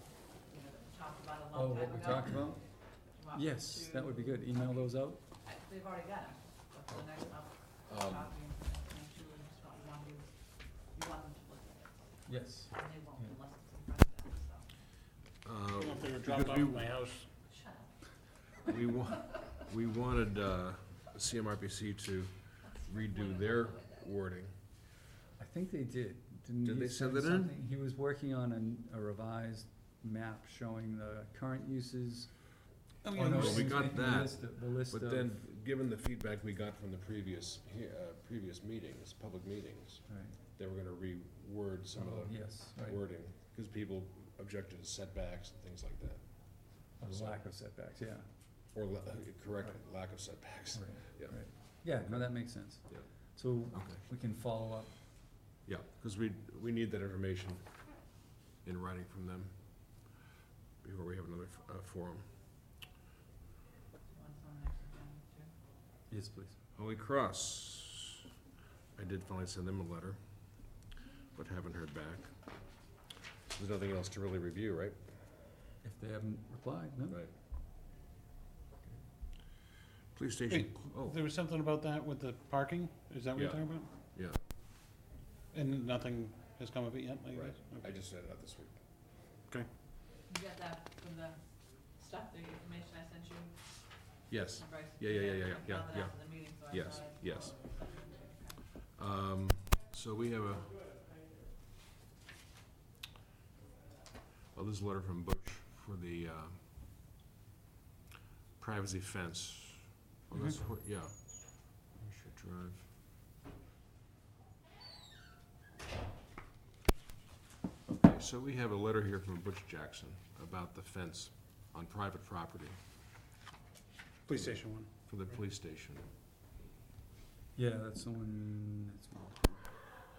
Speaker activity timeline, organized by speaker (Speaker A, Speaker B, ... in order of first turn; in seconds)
Speaker A: 0.5-14.7, 17.5-18.4, 22.7-24.0, 64.1-65.5, 90.3-93.6, 94.6-98.6
Speaker B: 1.5-5.2, 12.3-13.2, 25.4-35.4, 40.1-40.4, 42.0-43.0, 47.0-48.3, 50.7-55.3, 66.1-66.6, 75.8-77.2, 127.5-129.7
Speaker C: 7.9-8.4, 15.4-16.9, 18.6-24.5, 26.6-27.6, 33.3-47.4, 48.7-53.1, 53.7-54.1, 55.6-60.2, 60.8-62.3, 66.8-68.2, 69.0-70.7, 71.3-72.3, 73.5-75.2, 77.1-77.3, 80.1-81.2, 83.3-84.4, 87.3-88.8, 94.3-97.6, 98.9-100.9, 104.5-106.6, 108.6-112.9, 117.9-122.8, 124.3-126.1
Speaker D: 15.8-17.3, 33.0-33.9, 80.5-83.9, 85.5-87.9, 124.2-124.9